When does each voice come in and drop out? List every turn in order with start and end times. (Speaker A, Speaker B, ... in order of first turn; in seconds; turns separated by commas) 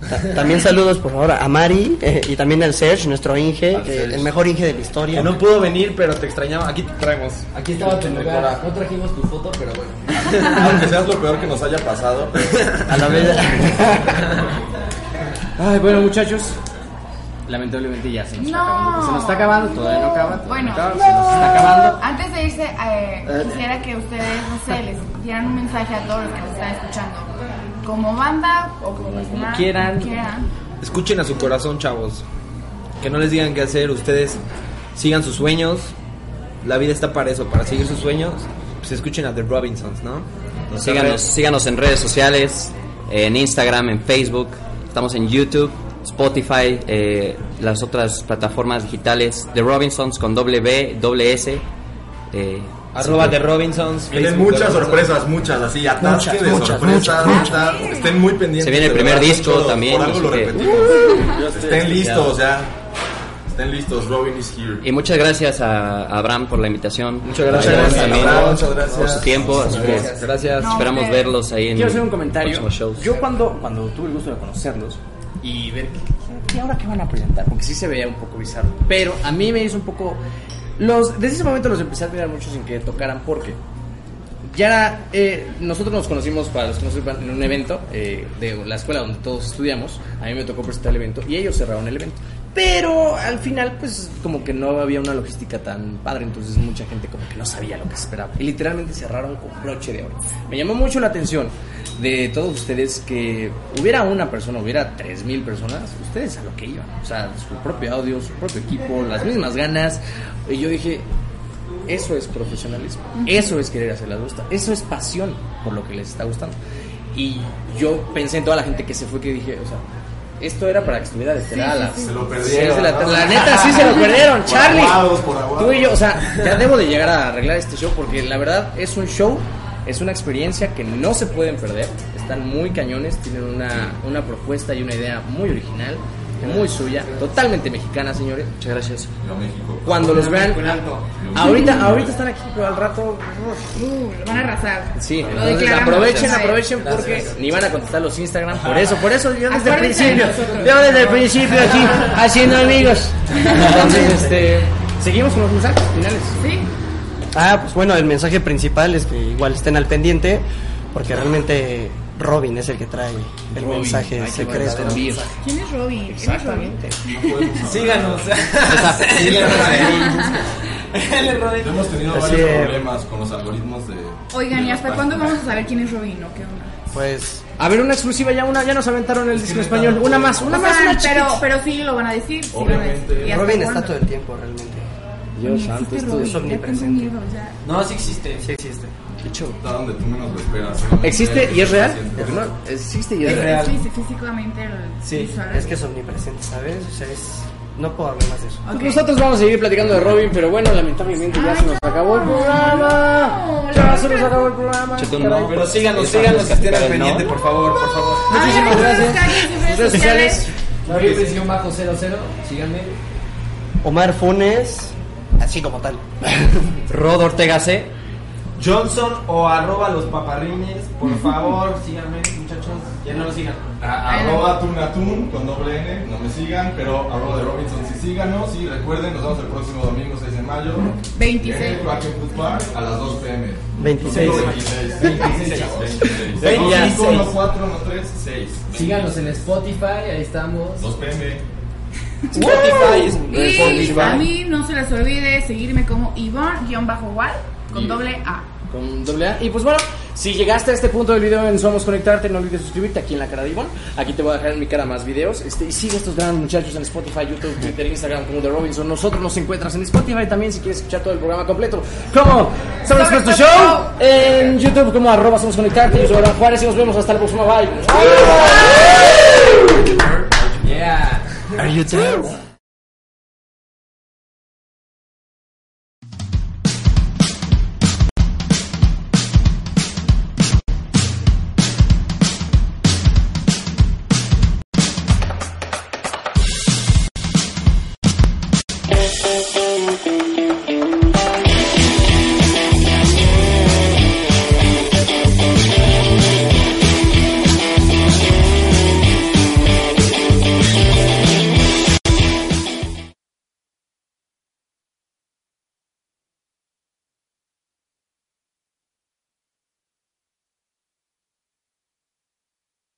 Speaker A: 0.1-5.4, Speaker B: 3.7-4.3, Speaker C: 5.1-7.5, Speaker D: 7.5-10.1, Speaker B: 7.7-8.6, Speaker B: 10.1-13.8, Speaker A: 12.9-14.2, Speaker E: 15.6-16.6, Speaker E: 17.4-22.0, Speaker F: 18.4-30.5, Speaker E: 28.9-30.1, Speaker C: 30.8-32.2, Speaker C: 33.0-34.4, Speaker C: 34.9-35.9, Speaker C: 36.6-41.2, Speaker G: 40.7-51.6, Speaker G: 52.3-53.4, Speaker C: 52.9-55.2, Speaker B: 54.1-62.7, Speaker A: 56.0-57.7, Speaker F: 57.2-58.2, Speaker G: 58.6-60.8, Speaker F: 61.1-61.3, Speaker E: 61.4-61.8, Speaker B: 63.5-64.8, Speaker G: 64.8-73.1, Speaker C: 67.2-68.7, Speaker D: 67.4-70.4, Speaker B: 67.5-70.1, Speaker C: 69.8-70.8, Speaker F: 70.6-71.3, Speaker E: 71.7-80.2, Speaker E: 80.8-83.6, Speaker E: 84.4-111.1, Speaker E: 111.9-116.6, Speaker E: 117.1-119.8, Speaker E: 120.4-138.5, Speaker F: 121.4-122.3, Speaker B: 122.0-126.4, Speaker C: 136.5-137.3, Speaker G: 138.6-139.1, Speaker B: 139.2-140.3, Speaker E: 139.8-140.7, Speaker C: 140.1-141.2, Speaker B: 141.2-142.2, Speaker E: 141.3-143.8, Speaker F: 141.4-141.9, Speaker F: 143.7-147.2, Speaker E: 144.9-156.4, Speaker G: 145.3-146.4, Speaker C: 146.7-147.6, Speaker D: 146.8-147.2, Speaker B: 148.6-148.9, Speaker F: 149.4-150.9, Speaker C: 150.4-151.3, Speaker F: 153.3-154.1, Speaker A: 153.6-154.3, Speaker F: 156.3-156.7, Speaker A: 157.3-165.2, Speaker E: 163.5-165.4, Speaker F: 165.4-167.8, Speaker E: 166.1-167.0, Speaker B: 167.0-168.4, Speaker D: 167.7-170.3, Speaker E: 168.6-170.3, Speaker C: 168.9-169.9, Speaker B: 168.9-170.2, Speaker F: 169.8-170.4, Speaker E: 170.9-171.4, Speaker B: 171.4-175.4, Speaker A: 172.1-172.8, Speaker F: 174.3-176.7, Speaker A: 176.9-177.4, Speaker E: 177.6-181.4, Speaker B: 179.3-180.4, Speaker F: 180.4-184.0, Speaker B: 182.5-183.5, Speaker A: 183.2-184.8, Speaker E: 185.3-186.5, Speaker F: 185.4-187.6, Speaker A: 186.1-187.1, Speaker C: 187.6-188.8, Speaker B: 189.4-192.5, Speaker E: 191.0-193.6, Speaker C: 193.2-193.8, Speaker F: 193.2-195.8, Speaker C: 195.0-195.3, Speaker A: 195.5-198.6, Speaker F: 198.7-199.1, Speaker E: 198.7-205.6, Speaker F: 201.2-204.5, Speaker G: 204.9-207.3, Speaker C: 205.4-208.3, Speaker F: 208.3-210.5, Speaker E: 208.3-210.9, Speaker D: 210.8-212.9, Speaker C: 210.9-211.5, Speaker A: 213.8-216.5, Speaker G: 216.9-217.9, Speaker C: 218.6-223.6, Speaker B: 223.8-239.4, Speaker F: 224.1-224.7, Speaker F: 231.1-232.1, Speaker A: 233.8-234.6, Speaker C: 234.1-237.3, Speaker D: 234.2-234.5, Speaker D: 235.0-235.8, Speaker D: 236.3-237.2, Speaker D: 238.7-240.8, Speaker B: 240.8-241.4, Speaker C: 242.3-244.3, Speaker D: 242.4-244.1, Speaker F: 243.3-248.4, Speaker B: 243.6-244.1, Speaker E: 248.7-268.9, Speaker F: 262.9-263.9, Speaker E: 270.7-271.2, Speaker A: 271.6-272.4